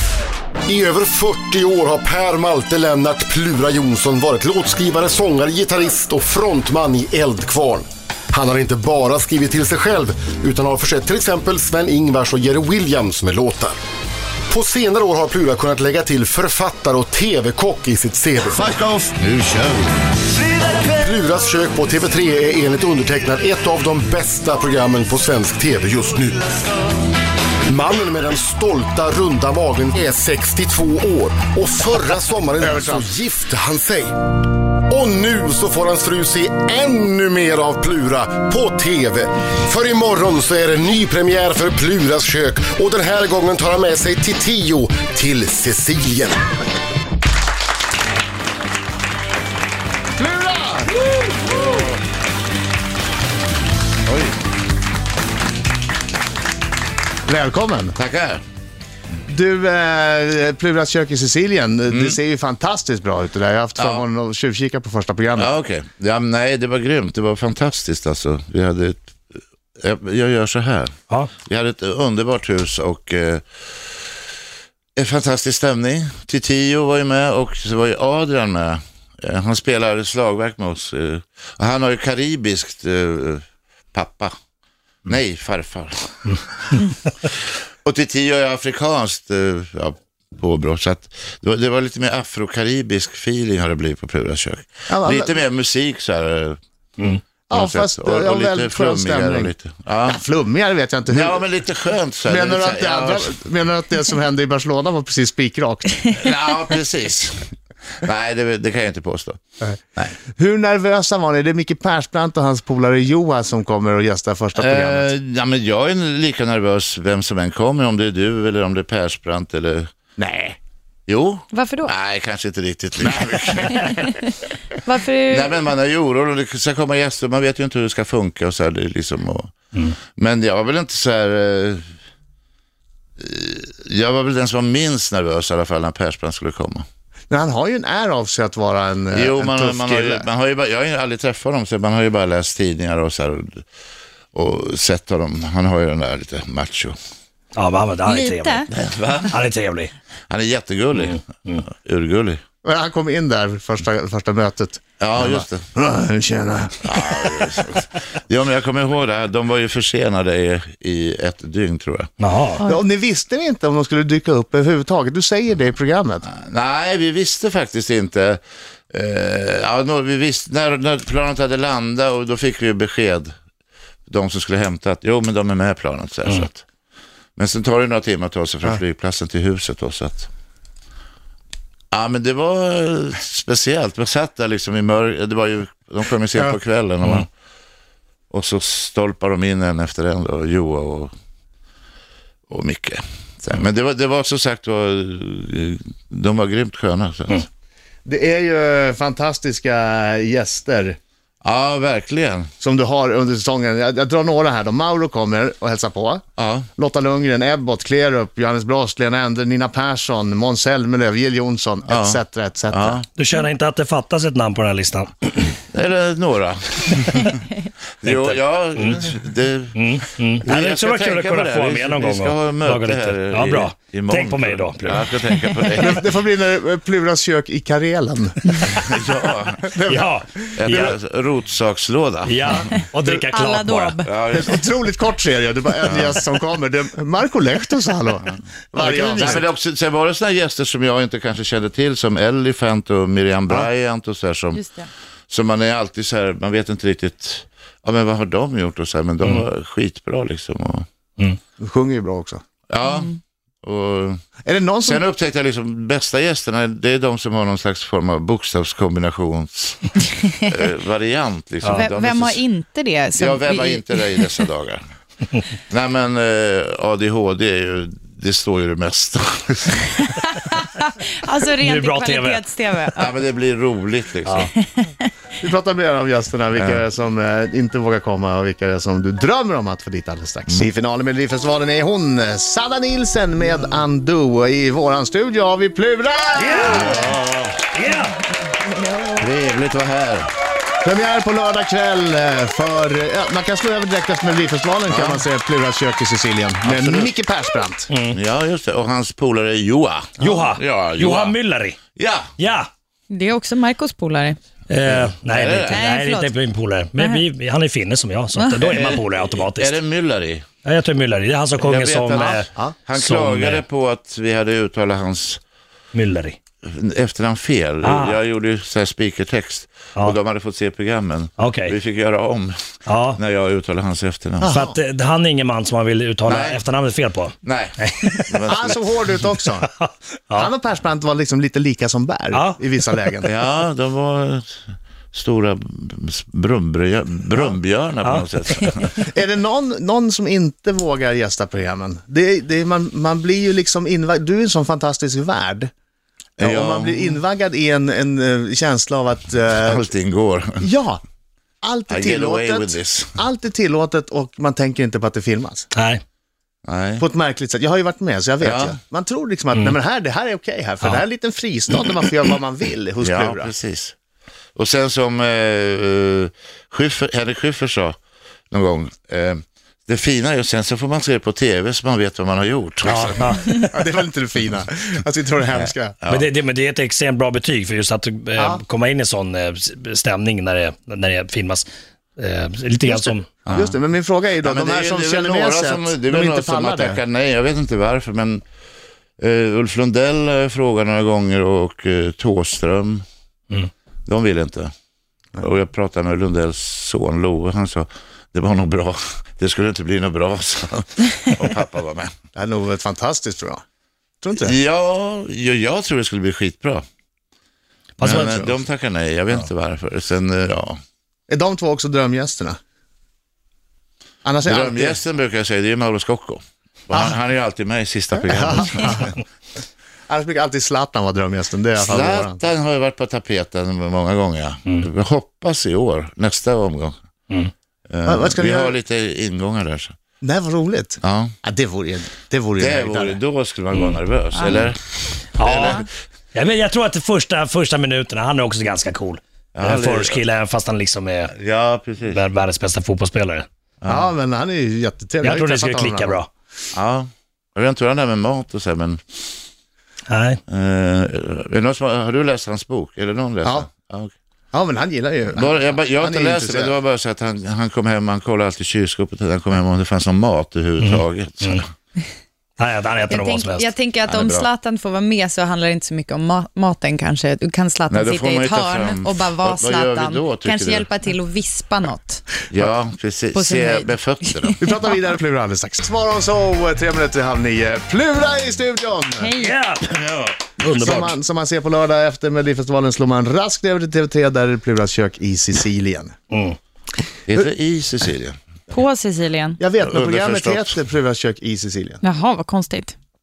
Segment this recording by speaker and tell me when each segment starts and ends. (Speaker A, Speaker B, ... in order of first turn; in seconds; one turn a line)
Speaker A: 0.7-13.8
Speaker A: 14.5-18.7
Speaker B: 18.5-20.2
Speaker A: 20.9-26.6
Speaker A: 27.7-34.1
Speaker C: 32.6-33.1
Speaker A: 34.9-46.4
Speaker C: 50.2-51.0
Speaker B: 54.1-54.4
Speaker C: 57.3-58.0
Speaker B: 58.0-58.4
Speaker C: 59.3-65.5
Speaker B: 61.9-62.2
Speaker B: 63.8-64.0
Speaker B: 65.4-70.9
Speaker B: 71.5-73.4
Speaker B: 75.0-84.3
Speaker B: 85.1-86.7
Speaker B: 87.2-100.2
Speaker C: 94.9-95.4
Speaker C: 97.5-101.5
Speaker B: 101.1-103.4
Speaker C: 102.2-106.2
Speaker B: 106.1-107.5
Speaker B: 108.0-109.4
Speaker C: 110.0-115.1
Speaker B: 114.5-119.9
Speaker C: 120.2-120.6
Speaker B: 121.1-124.2
Speaker D: 121.5-121.9
Speaker D: 124.8-125.5
Speaker B: 125.3-131.8
Speaker B: 133.2-136.8
Speaker C: 137.3-140.3
Speaker B: 139.1-143.6
Speaker B: 144.3-147.0
Speaker E: 147.6-148.7
Speaker D: 148.1-148.7
Speaker B: 148.7-149.4
Speaker E: 149.3-149.9
Speaker B: 150.3-152.4
Speaker E: 151.0-151.6
Speaker C: 152.6-157.5
Speaker B: 155.0-155.6
Speaker B: 156.8-162.1
Speaker E: 162.2-162.6
Speaker C: 162.6-166.3
Speaker B: 166.2-168.4
Speaker B: 168.9-173.3
Speaker B: 174.1-176.6
Speaker B: 177.4-180.3
Speaker B: 181.9-187.3
Speaker B: 188.3-191.1
Speaker B: 192.5-197.5
Speaker C: 198.1-201.0
Speaker B: 201.4-202.5
Speaker C: 202.6-206.2
Speaker B: 206.4-206.7
Speaker C: 206.8-213.0
Speaker B: 211.9-213.1
Speaker E: 213.2-215.5
Speaker B: 215.7-226.1
Speaker E: 218.0-219.2
Speaker E: 219.8-225.2
Speaker C: 225.8-229.0
Speaker B: 228.6-229.8
Speaker C: 229.6-230.8
Speaker E: 229.9-231.0
Speaker B: 230.6-232.7
Speaker E: 232.3-234.0
Speaker D: 232.7-234.1
Speaker B: 234.1-234.6
Speaker C: 234.3-239.5
Speaker B: 235.8-236.2
Speaker E: 238.8-239.4
Speaker B: 238.9-244.6
Speaker D: 244.5-244.9
Speaker B: 245.3-250.9
Speaker C: 251.6-252.4
Speaker B: 252.7-254.2
Speaker D: 252.9-253.2
Speaker C: 254.4-255.0
Speaker B: 254.8-262.4
Speaker E: 261.6-261.9
Speaker D: 261.8-264.3
Speaker B: 263.1-264.8
Speaker B: 265.7-270.0
Speaker D: 270.3-273.1
Speaker E: 271.6-272.5
Speaker B: 272.9-274.5
Speaker C: 275.4-287.2
Speaker B: 276.6-276.8
Speaker E: 286.4-288.2
Speaker B: 286.6-287.2
Speaker B: 289.2-290.3
Speaker C: 290.8-297.9
Speaker B: 294.9-295.2
Speaker B: 296.6-297.1
Speaker E: 297.9-298.2
Speaker B: 298.1-301.4
Speaker E: 300.2-301.8
Speaker B: 302.0-302.3
Speaker E: 302.4-302.7
Speaker D: 303.1-304.4
Speaker E: 304.7-309.8
Speaker B: 304.9-305.8
Speaker D: 305.7-306.3
Speaker D: 308.4-308.7
Speaker B: 308.7-310.5
Speaker E: 310.6-313.6
Speaker B: 311.6-315.4
Speaker E: 315.9-316.4
Speaker B: 316.6-322.6
Speaker E: 317.8-318.2
Speaker E: 321.4-321.8
Speaker E: 322.9-323.2
Speaker B: 323.1-324.6
Speaker C: 324.4-324.8
Speaker E: 324.5-328.4
Speaker B: 326.2-326.6
Speaker B: 327.4-328.9
Speaker C: 328.5-329.7
Speaker E: 329.6-330.5
Speaker C: 330.4-333.3
Speaker E: 332.3-333.0
Speaker B: 333.2-339.0
Speaker E: 338.0-338.9
Speaker C: 339.0-345.7
Speaker C: 346.4-349.9
Speaker B: 346.4-347.2
Speaker B: 349.6-350.7
Speaker C: 350.6-351.0
Speaker C: 351.6-355.7
Speaker B: 351.9-353.2
Speaker E: 355.7-356.0
Speaker B: 356.7-357.1
Speaker C: 357.0-363.5
Speaker B: 358.4-358.8
Speaker B: 363.0-363.9
Speaker B: 364.6-368.0
Speaker B: 368.5-373.4
Speaker E: 372.8-373.7
Speaker C: 373.7-376.0
Speaker B: 375.6-376.3
Speaker E: 376.1-383.3
Speaker C: 378.4-378.6
Speaker C: 382.9-387.0
Speaker B: 383.5-383.8
Speaker B: 384.4-388.4
Speaker B: 389.2-393.0
Speaker B: 394.1-394.7
Speaker B: 395.4-402.1
Speaker C: 402.4-403.6
Speaker C: 404.2-404.6
Speaker B: 404.4-406.9
Speaker E: 408.0-408.5
Speaker B: 408.0-410.8
Speaker C: 408.0-408.5
Speaker C: 411.3-412.6
Speaker C: 414.2-415.0
Speaker B: 414.5-419.1
Speaker C: 418.1-419.1
Speaker C: 420.1-422.4
Speaker B: 421.8-427.0
Speaker B: 427.9-430.0
Speaker C: 428.1-428.8
Speaker C: 430.2-433.2
Speaker B: 431.0-431.3
Speaker B: 432.6-434.8
Speaker E: 433.7-434.0
Speaker B: 435.4-435.9
Speaker E: 435.4-441.4
Speaker B: 439.5-440.2
Speaker B: 441.3-442.2
Speaker E: 442.1-443.5
Speaker B: 443.8-444.1
Speaker C: 443.9-446.2
Speaker E: 445.2-446.3
Speaker B: 446.7-449.2
Speaker E: 450.1-450.4
Speaker B: 450.5-454.1
Speaker C: 454.5-456.8
Speaker B: 455.3-461.7
Speaker E: 460.8-461.6
Speaker E: 462.6-463.7
Speaker D: 463.1-472.2
Speaker B: 464.1-464.5
Speaker B: 467.9-470.9
Speaker B: 472.5-474.6
Speaker D: 473.3-474.6
Speaker C: 474.6-479.3
Speaker D: 479.2-479.5
Speaker E: 479.4-481.1
Speaker C: 480.6-486.1
Speaker B: 480.8-481.1
Speaker E: 486.3-486.6
Speaker B: 487.3-488.4
Speaker D: 488.7-489.6
Speaker C: 489.6-492.0
Speaker B: 489.8-490.8
Speaker D: 492.0-492.9